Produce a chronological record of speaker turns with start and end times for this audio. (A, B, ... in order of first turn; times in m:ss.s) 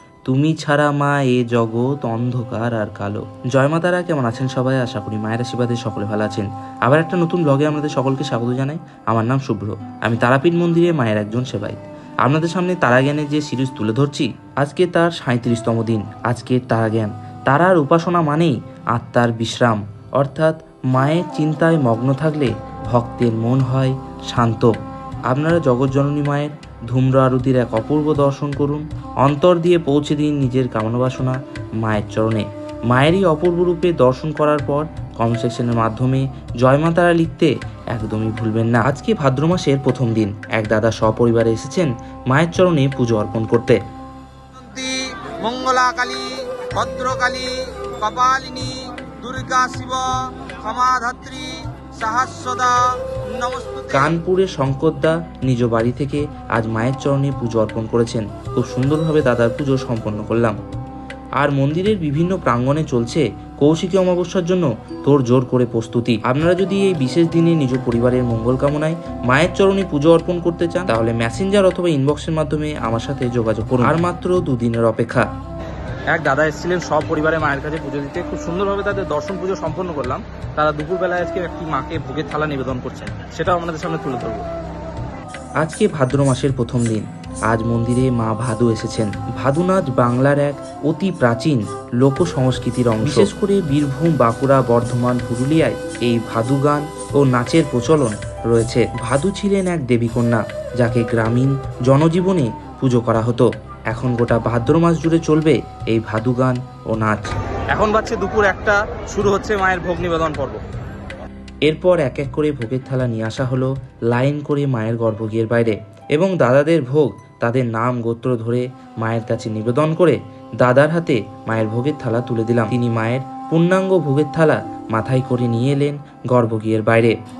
0:00.3-0:24.7 A
0:25.3-0:43.8 A
0:44.6-0:54.1 B
0:53.9-1:00.6 A
1:01.4-1:15.2 A
1:16.1-1:24.4 C
1:25.6-1:47.3 A
1:33.0-1:33.3 C
1:47.7-1:50.6 C
1:51.7-2:07.1 A